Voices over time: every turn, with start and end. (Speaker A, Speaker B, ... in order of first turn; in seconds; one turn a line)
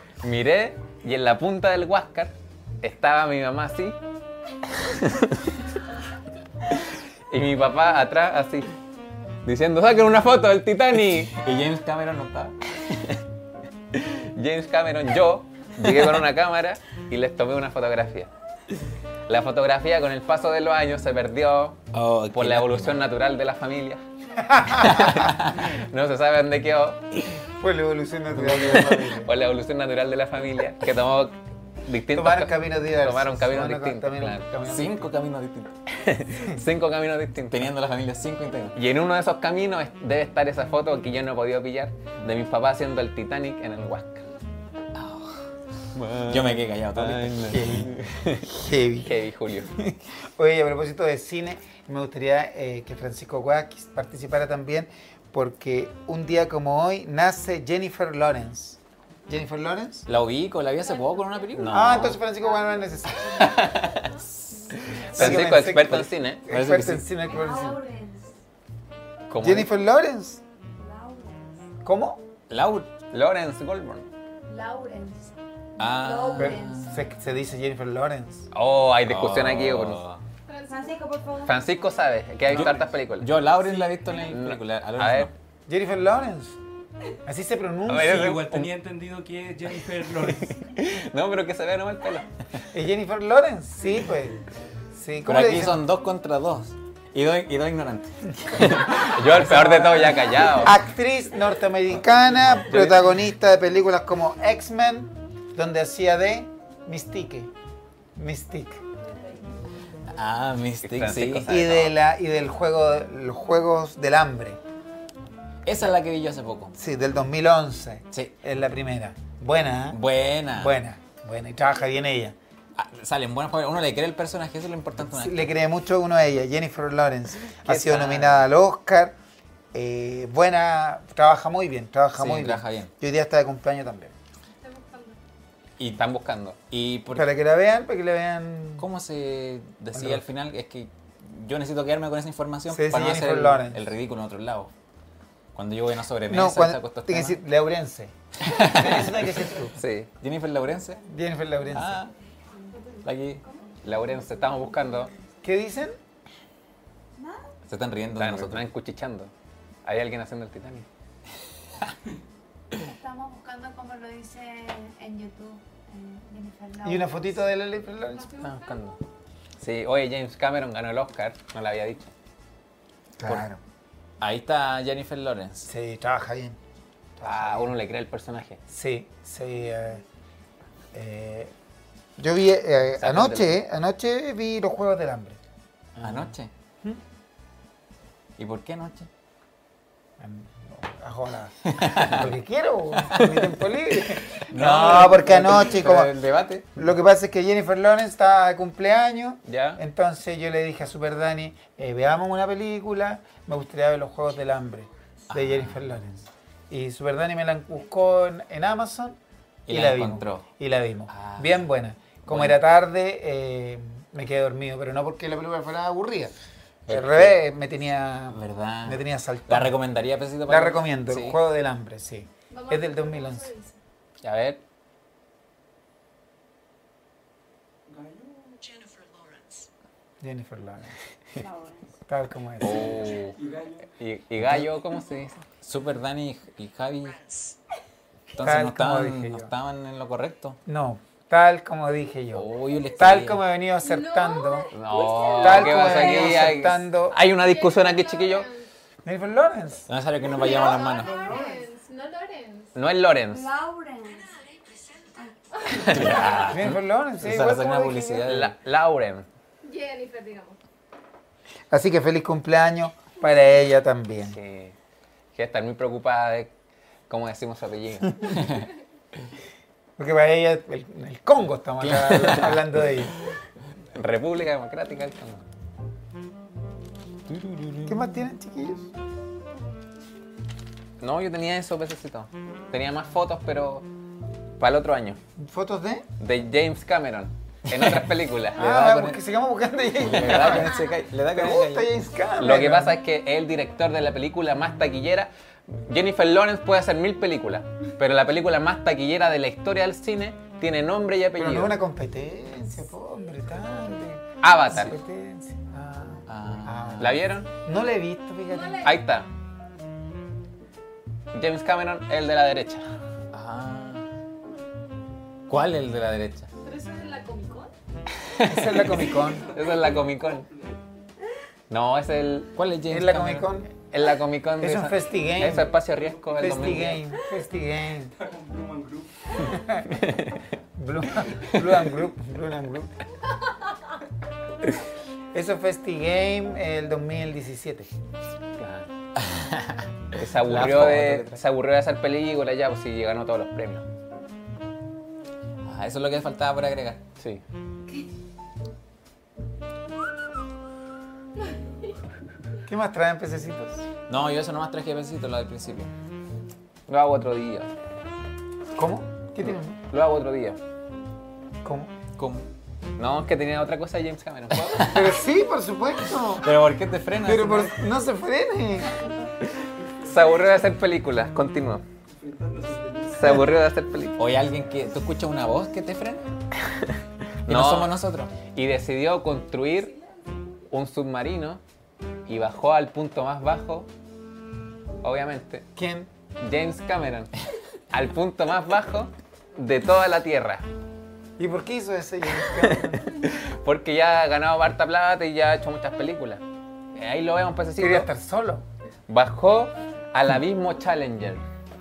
Speaker A: 0.2-4.0
Speaker A: 4.8-5.5
Speaker A: 7.3-8.7
Speaker A: 9.4-11.4
Speaker B: 11.3-12.6
Speaker A: 13.9-18.3
Speaker B: 15.8-16.2
Speaker A: 19.3-21.8
Speaker B: 21.9-23.0
Speaker A: 22.3-24.0
Speaker C: 24.4-25.2
Speaker A: 24.7-27.0
Speaker C: 27.6-29.3
Speaker B: 28.3-29.0
Speaker A: 28.7-34.4
Speaker C: 32.1-35.1
Speaker B: 34.7-35.7
Speaker A: 36.0-37.7
Speaker B: 37.5-38.8
Speaker A: 38.8-44.2
Speaker B: 44.9-45.4
Speaker A: 45.9-48.5
Speaker B: 46.3-47.6
Speaker C: 47.3-49.2
Speaker A: 49.0-49.7
Speaker C: 49.7-60.1
Speaker B: 60.1-62.2
Speaker D: 61.1-61.4
Speaker A: 61.5-62.2
Speaker C: 61.7-63.6
Speaker D: 62.4-63.6
Speaker A: 63.3-64.2
Speaker C: 65.1-67.8
Speaker A: 65.1-66.4
Speaker B: 65.2-65.5
Speaker B: 66.5-67.1
Speaker D: 67.2-68.4
Speaker A: 69.3-69.7
Speaker C: 69.4-70.4
Speaker D: 70.7-71.7
Speaker C: 71.8-72.2
Speaker B: 72.5-72.9
Speaker A: 73.1-74.1
Speaker D: 74.5-77.0
Speaker B: 75.8-77.0
Speaker C: 76.3-78.5
Speaker A: 78.5-80.1
Speaker B: 79.0-80.2
Speaker E: 80.5-81.0
Speaker D: 80.7-81.6
Speaker A: 81.4-83.4
Speaker B: 82.5-85.3
Speaker A: 84.3-85.3
Speaker C: 85.7-86.6
Speaker C: 87.2-88.3
Speaker A: 87.9-88.7
Speaker F: 87.9-90.6
Speaker A: 90.6-92.3
Speaker C: 92.7-94.4
Speaker C: 94.9-95.8
Speaker B: 95.3-99.1
Speaker A: 98.6-100.8
Speaker C: 99.3-107.5
Speaker A: 102.7-103.0
Speaker C: 108.2-108.8
Speaker D: 109.0-109.5
Speaker B: 110.1-111.5
Speaker A: 110.8-112.0
Speaker C: 111.5-114.6
Speaker B: 115.7-116.8
Speaker C: 116.8-120.0
Speaker B: 119.9-120.8
Speaker C: 120.6-122.4
Speaker B: 122.8-125.5
Speaker C: 125.1-129.2
Speaker A: 127.7-128.5
Speaker C: 129.7-134.1
Speaker B: 132.2-132.9
Speaker E: 134.6-135.2
Speaker B: 135.8-136.0
Speaker A: 136.0-136.6
Speaker B: 136.7-137.3
Speaker C: 137.1-138.9
Speaker B: 138.8-144.7
Speaker C: 139.9-140.3
Speaker C: 142.7-143.8
Speaker B: 145.6-147.4
Speaker C: 146.3-149.8
Speaker B: 148.4-149.3
Speaker A: 149.8-150.1
Speaker B: 150.2-151.0
Speaker C: 151.1-152.0
Speaker B: 151.7-152.1
Speaker E: 152.8-153.7
Speaker B: 153.0-153.4
Speaker A: 153.8-155.1
Speaker C: 155.4-156.0
Speaker D: 157.2-157.4
Speaker B: 157.7-158.7
Speaker A: 158.2-159.3
Speaker A: 159.8-160.9
Speaker D: 162.7-167.4
Speaker C: 166.8-168.3
Speaker E: 168.1-168.8
Speaker A: 168.4-169.0
Speaker A: 169.6-172.1
Speaker C: 173.2-173.6
Speaker B: 174.2-175.7
Speaker C: 175.7-176.6
Speaker C: 177.2-177.7
Speaker A: 177.2-178.6
Speaker C: 178.7-180.0
Speaker C: 180.9-181.5
Speaker C: 182.2-185.4
Speaker A: 183.0-183.6
Speaker A: 186.0-186.3
Speaker B: 186.0-186.5
Speaker B: 188.4-189.1
Speaker C: 190.2-196.1
Speaker B: 191.7-192.3
Speaker B: 193.0-193.5
Speaker B: 194.4-196.8
Speaker A: 194.6-195.1
Speaker C: 196.8-209.2
Speaker A: 199.5-199.8
Speaker B: 205.3-206.0
Speaker B: 209.7-210.4
Speaker C: 209.7-216.3
Speaker B: 211.1-211.7
Speaker B: 212.3-212.6
Speaker B: 216.9-217.4
Speaker C: 216.9-219.7
Speaker B: 218.3-221.4
Speaker C: 220.5-223.5
Speaker E: 222.5-223.8
Speaker A: 224.2-224.6
Speaker F: 227.9-229.1
Speaker C: 230.2-231.0
Speaker D: 231.4-231.9
Speaker C: 232.1-232.9
Speaker A: 232.6-233.4
Speaker F: 232.8-233.9
Speaker A: 234.0-235.4
Speaker B: 235.6-237.6
Speaker B: 238.3-240.6
Speaker C: 238.4-239.5
Speaker C: 240.7-244.7
Speaker B: 242.3-243.4
Speaker E: 243.8-246.6
Speaker A: 244.7-248.5
Speaker C: 245.4-247.2
Speaker E: 247.3-248.7
Speaker C: 249.1-249.9
Speaker B: 249.9-251.2
Speaker E: 250.3-252.7
Speaker D: 250.3-251.7
Speaker A: 252.8-253.5
Speaker D: 253.3-256.4
Speaker E: 255.6-256.4
Speaker A: 255.7-256.0
Speaker B: 255.8-258.5
Speaker C: 256.4-258.3
Speaker A: 258.3-259.3
Speaker E: 259.6-260.6
Speaker C: 261.7-264.4
Speaker A: 264.2-264.8
Speaker A: 265.4-266.5
Speaker A: 267.1-268.4
Speaker C: 270.0-273.2
Speaker B: 271.8-273.4
Speaker A: 273.9-275.4
Speaker B: 277.3-277.9
Speaker C: 277.9-278.9
Speaker A: 281.0-283.9
Speaker A: 284.6-285.2
Speaker C: 285.4-286.1
Speaker A: 286.2-288.6
Speaker B: 288.6-289.2
Speaker C: 288.6-293.0
Speaker B: 290.0-291.9
Speaker A: 290.1-290.7
Speaker A: 292.4-301.8
Speaker C: 301.4-308.9
Speaker A: 304.4-305.0
Speaker B: 306.3-307.2
Speaker A: 307.0-307.5
Speaker E: 308.5-308.9
Speaker A: 308.8-309.3
Speaker A: 311.3-312.9
Speaker B: 313.3-314.1
Speaker B: 315.5-316.5
Speaker E: 316.6-317.7
Speaker C: 318.4-319.5
Speaker A: 318.5-320.5
Speaker F: 319.2-320.8
Speaker A: 321.7-322.5
Speaker B: 322.6-323.5
Speaker C: 322.9-323.7
Speaker A: 323.9-327.1
Speaker C: 324.6-325.7
Speaker F: 325.7-327.0
Speaker C: 326.4-328.1
Speaker F: 328.2-329.7
Speaker C: 329.4-329.9
Speaker A: 329.9-330.4
Speaker C: 330.8-332.9
Speaker C: 335.3-337.9
Speaker A: 338.6-338.9
Speaker B: 339.2-341.4
Speaker A: 340.1-343.9
Speaker B: 345.6-347.0
Speaker C: 352.7-353.9
Speaker B: 354.1-355.9
Speaker A: 356.9-357.7
Speaker C: 358.8-359.8
Speaker A: 359.4-360.6
Speaker C: 361.6-361.9
Speaker B: 362.2-362.5
Speaker A: 363.0-365.0
Speaker B: 364.8-365.1
Speaker C: 364.9-366.5
Speaker B: 366.4-367.8
Speaker C: 367.2-369.0
Speaker F: 370.0-370.4
Speaker A: 370.0-371.8
Speaker F: 372.1-373.4
Speaker A: 373.1-374.2
Speaker B: 374.2-376.3
Speaker A: 377.5-377.9
Speaker B: 377.5-378.3
Speaker A: 378.5-379.9
Speaker E: 379.9-380.3
Speaker A: 380.7-381.6
Speaker A: 382.3-383.9
Speaker A: 385.0-385.7
Speaker C: 385.8-386.1
Speaker A: 386.4-387.3
Speaker A: 387.9-390.6
Speaker C: 391.4-393.1
Speaker A: 392.6-396.4
Speaker A: 396.9-398.1
Speaker C: 397.8-398.6
Speaker A: 399.1-401.4